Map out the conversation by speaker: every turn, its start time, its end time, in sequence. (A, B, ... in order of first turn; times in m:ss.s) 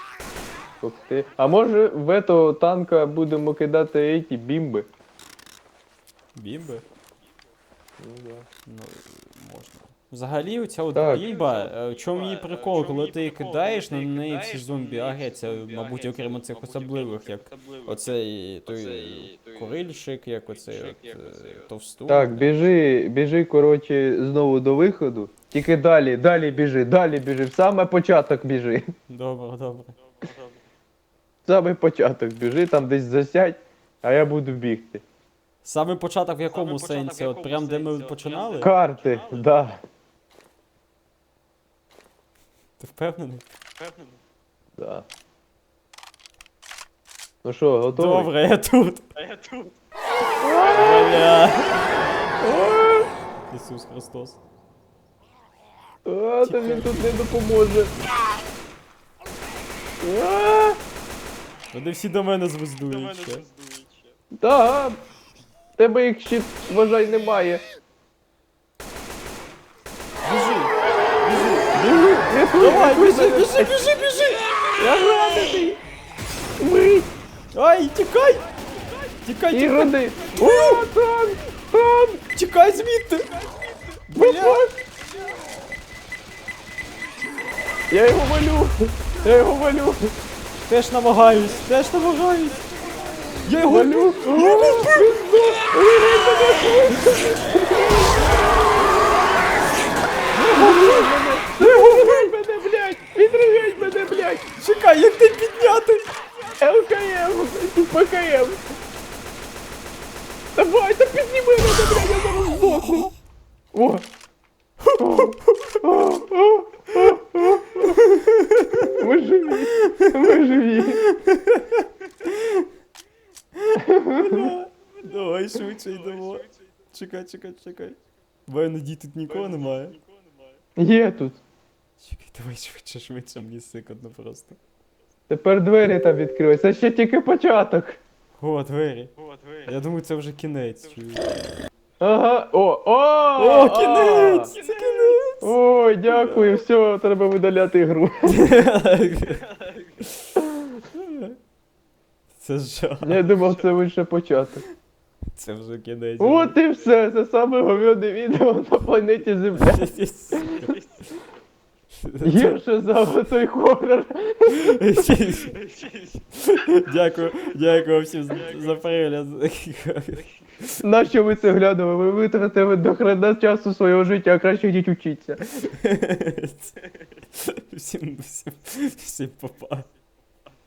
0:00.8-0:04.9 A
0:06.3-0:06.8 B
0:08.0-0:08.4 A
0:08.7-0:22.7 B
0:10.9-0:11.2 A
0:11.1-0:19.9 C
0:20.6-0:21.7 C
0:22.1-0:28.9 A
0:29.1-0:29.9 B
0:30.0-0:30.6 C
0:31.4-0:35.0 A
0:35.6-0:38.7 B
0:36.5-0:39.5 C
0:38.6-0:39.8 A
0:42.8-0:43.4 B
0:43.8-0:44.2 C
0:44.8-0:45.0 A
0:47.4-0:48.3 A
0:47.9-0:49.0 B
0:49.2-0:49.7 C
0:50.4-0:51.2 A
0:50.7-0:51.7 B
0:51.6-0:52.3 C
0:52.4-0:53.1 A
0:53.5-0:54.4 B
0:56.0-0:57.9 A
0:56.4-0:57.1 B
1:00.0-1:00.8 A
1:01.7-1:03.4 B
1:02.8-1:04.1 C
1:04.4-1:05.0 A
1:05.8-1:07.6 A
1:10.2-1:11.8 B
1:11.7-1:13.8 A
1:12.5-1:14.5 B
1:14.1-1:14.8 C
1:14.8-1:15.8 A
1:16.6-1:17.1 A
1:17.5-1:18.4 B
1:19.2-1:20.8 B
1:19.5-1:22.2 A
1:22.3-1:23.4 B
1:24.1-1:24.7 B
1:24.1-1:24.7 A
1:27.9-1:30.1 A
1:30.6-1:32.6 B
1:32.4-1:33.5 C
1:33.4-1:35.6 B
1:33.6-1:38.6 A
1:40.3-1:42.3 B
1:40.5-1:44.4 A
1:44.6-1:46.1 B
1:46.6-1:48.6 A
1:50.6-1:53.1 A
1:53.7-1:54.1 A
1:54.8-1:55.8 B
1:55.0-1:58.0 A
1:57.6-1:59.1 B
1:58.9-2:01.0 A
1:59.7-2:02.7 B
2:03.6-2:10.0 B
2:03.8-2:04.5 A
2:05.8-2:06.5 C
2:09.3-2:10.6 C
2:10.8-2:11.4 A
2:12.0-2:14.6 B
2:15.3-2:18.0 A
2:18.4-2:19.1 B
2:19.2-2:19.8 C
2:19.7-2:21.2 B
2:22.0-2:24.5 A
2:23.3-2:25.5 B
2:23.8-2:25.2 C
2:25.4-2:28.4 A
2:26.1-2:26.5 B
2:28.2-2:29.4 B
2:29.2-2:30.0 C
2:30.0-2:30.4 B
2:30.9-2:31.4 B
2:32.4-2:33.3 B
2:33.0-2:34.6 A
2:35.3-2:36.6 B
2:36.2-2:40.8 A
2:39.5-2:40.8 B
2:40.6-2:41.0 C
2:41.9-2:42.6 B
2:42.2-2:45.0 A
2:44.5-2:45.5 B
2:45.4-2:46.2 C
2:46.3-2:50.8 B
2:48.3-2:48.8 C
2:50.8-2:55.7 A
2:55.7-2:56.8 B
2:57.3-2:59.9 B